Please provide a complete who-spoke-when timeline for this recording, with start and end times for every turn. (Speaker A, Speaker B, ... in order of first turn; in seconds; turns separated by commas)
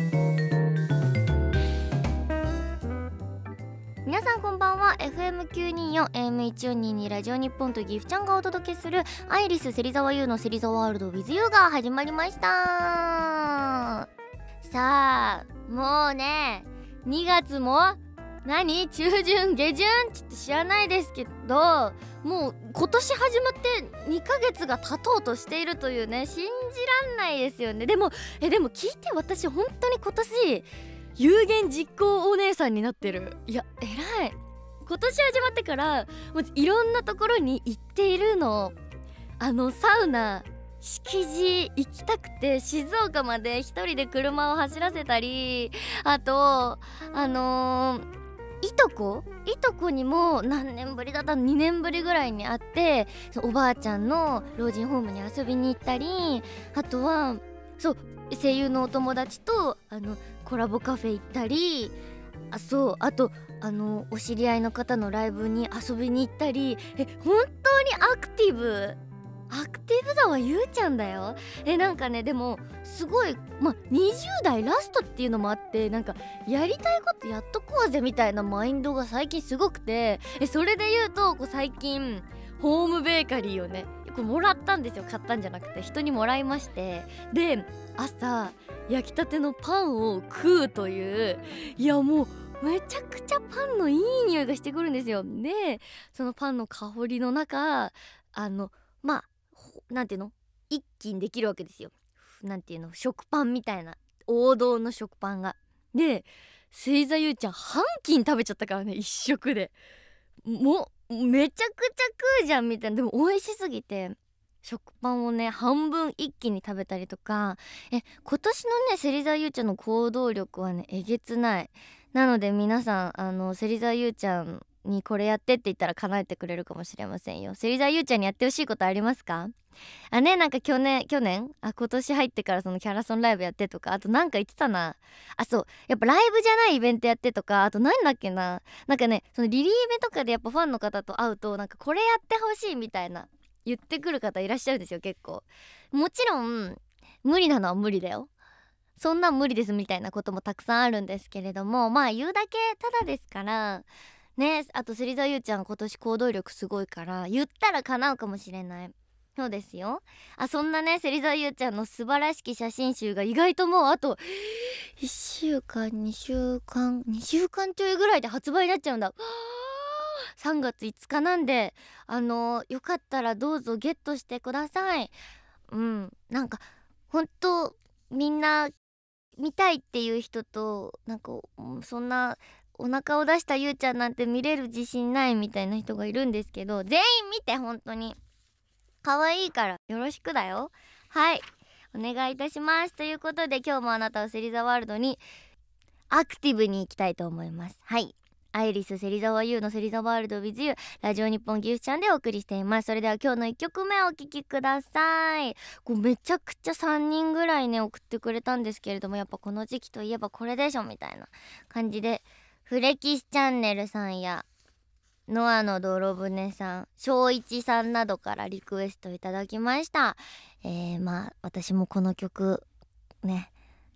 Speaker A: 4.0-14.1, Speaker A: 14.6-38.8, Speaker A: 39.4-48.1, Speaker A: 48.6-62.0, Speaker A: 62.5-69.0, Speaker A: 69.5-109.7, Speaker A: 110.4-129.5, Speaker A: 130.1-148.3, Speaker A: 149.0-175.2, Speaker A: 175.7-178.7, Speaker A: 179.4-188.2, Speaker A: 189.0-195.2, Speaker A: 196.1-214.5, Speaker A: 215.3-222.7, Speaker A: 223.2-223.5